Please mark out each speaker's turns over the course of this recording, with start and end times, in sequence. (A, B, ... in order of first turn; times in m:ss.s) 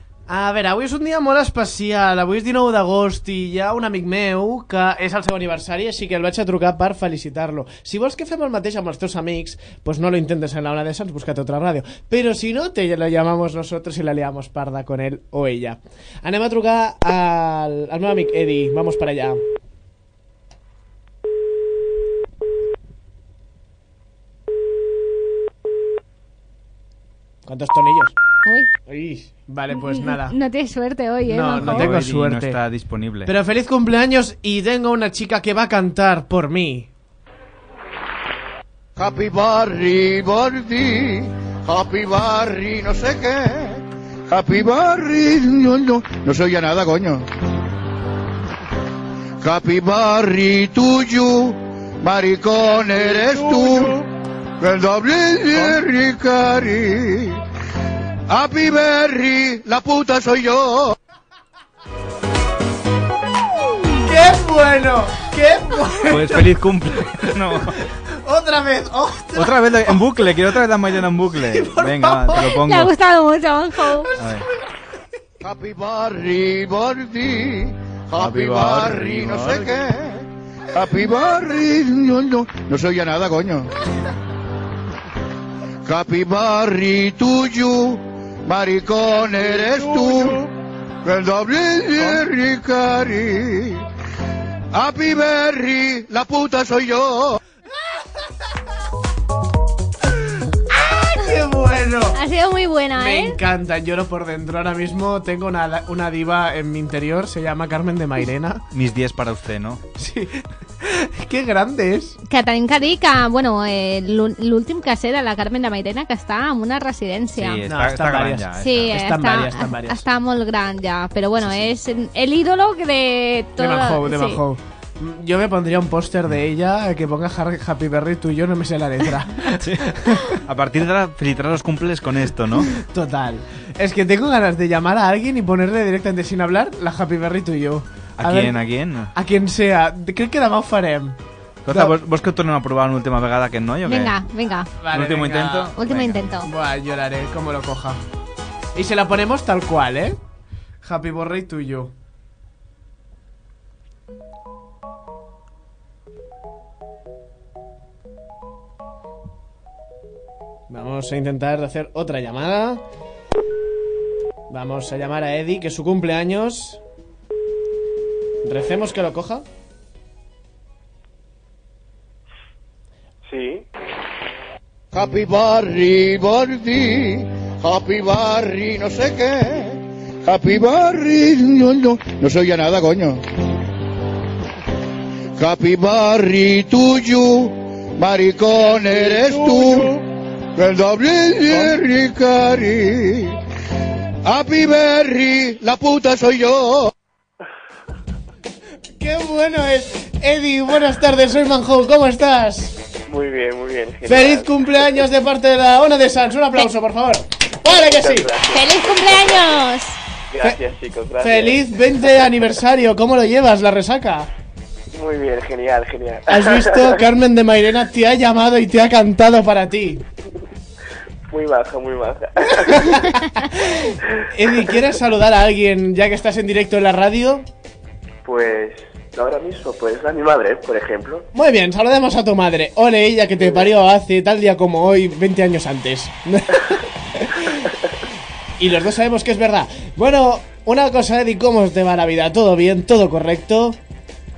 0:00.3-0:19.4 A
0:27.5-0:28.2 A
0:28.4-0:28.7 B
0:28.9-0:30.4 A
0:29.7-0:32.0 B
0:31.3-0:32.6 A
0:31.6-0:33.3 C
0:33.3-0:36.9 A
0:39.0-0:47.2 D
0:49.4-0:54.0 D
0:54.6-0:57.4 D
0:58.3-1:01.0 D
1:03.8-1:06.6 A
1:06.1-1:07.8 C
1:08.2-1:10.0 A
1:09.4-1:12.9 C
1:11.4-1:12.5 A
1:12.4-1:14.1 B
1:13.9-1:14.5 A
1:14.2-1:14.4 C
1:15.4-1:23.7 D
1:18.2-1:19.7 C
1:25.8-1:30.4 D
1:31.0-1:33.8 D
1:34.7-1:37.4 D
1:40.8-1:42.2 A
1:42.1-1:43.4 B
1:42.9-1:48.6 A
1:48.7-1:49.8 C
1:50.0-1:52.2 A
1:52.3-1:57.7 B
1:57.4-1:59.0 C
1:57.7-2:00.0 A
1:58.6-2:04.4 B
2:03.6-2:10.4 A
2:10.5-2:12.7 C
2:12.6-2:18.6 A
2:18.2-2:19.1 C
2:19.2-2:21.2 A
2:21.6-2:24.2 C
2:23.8-2:24.7 B
2:24.8-2:25.7 A
2:24.9-2:26.2 C
2:25.8-2:26.5 B
2:26.5-2:28.0 A
2:28.8-2:30.2 A
2:30.8-2:31.9 A
2:40.7-2:42.8 A
2:44.5-2:46.8 A
2:48.4-2:49.4 A
2:53.3-2:53.6 E
2:54.9-3:03.2 D
3:05.4-3:09.9 D
3:10.6-3:13.4 D
3:14.2-3:16.9 D
3:19.0-3:22.7 A
3:23.1-3:24.5 E
3:24.1-3:28.3 A
3:27.8-3:29.6 E
3:28.4-3:30.0 B
3:30.3-3:31.6 E
3:31.2-3:34.3 A
3:34.9-3:37.0 E
3:36.3-3:40.0 A
3:41.3-3:43.0 E
3:42.6-3:47.4 A
3:48.2-3:51.3 E
3:51.4-3:57.7 A
3:53.4-3:53.7 E
3:58.6-4:03.8 A